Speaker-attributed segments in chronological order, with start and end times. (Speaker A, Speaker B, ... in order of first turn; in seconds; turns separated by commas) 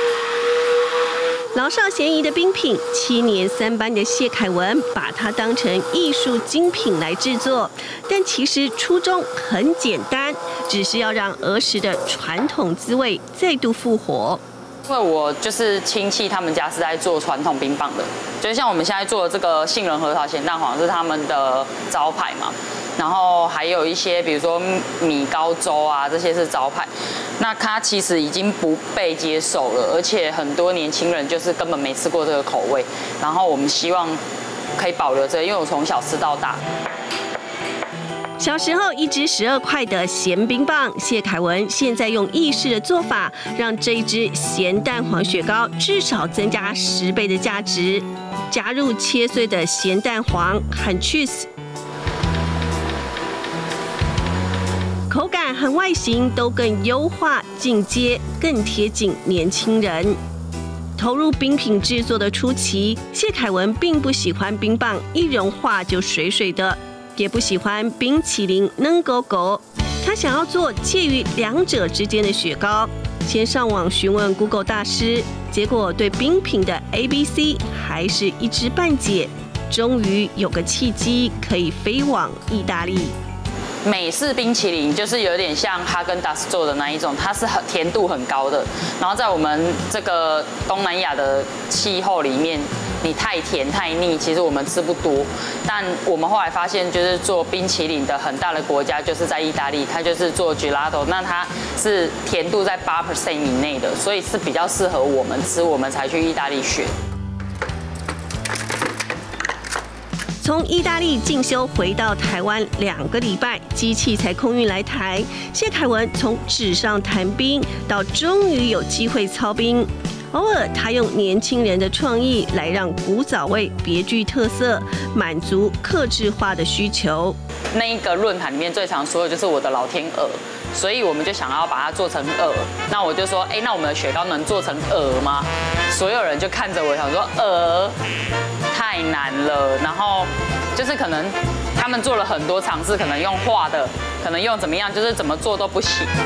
Speaker A: 1.5-14.4, Speaker B: 14.9-34.2, Speaker B: 34.8-36.6, Speaker A: 38.4-51.5, Speaker A: 55.1-60.2, Speaker A: 61.0-83.2, Speaker B: 83.8-106.9, Speaker A: 110.4-127.4, Speaker B: 127.7-138.0, Speaker B: 138.7-146.1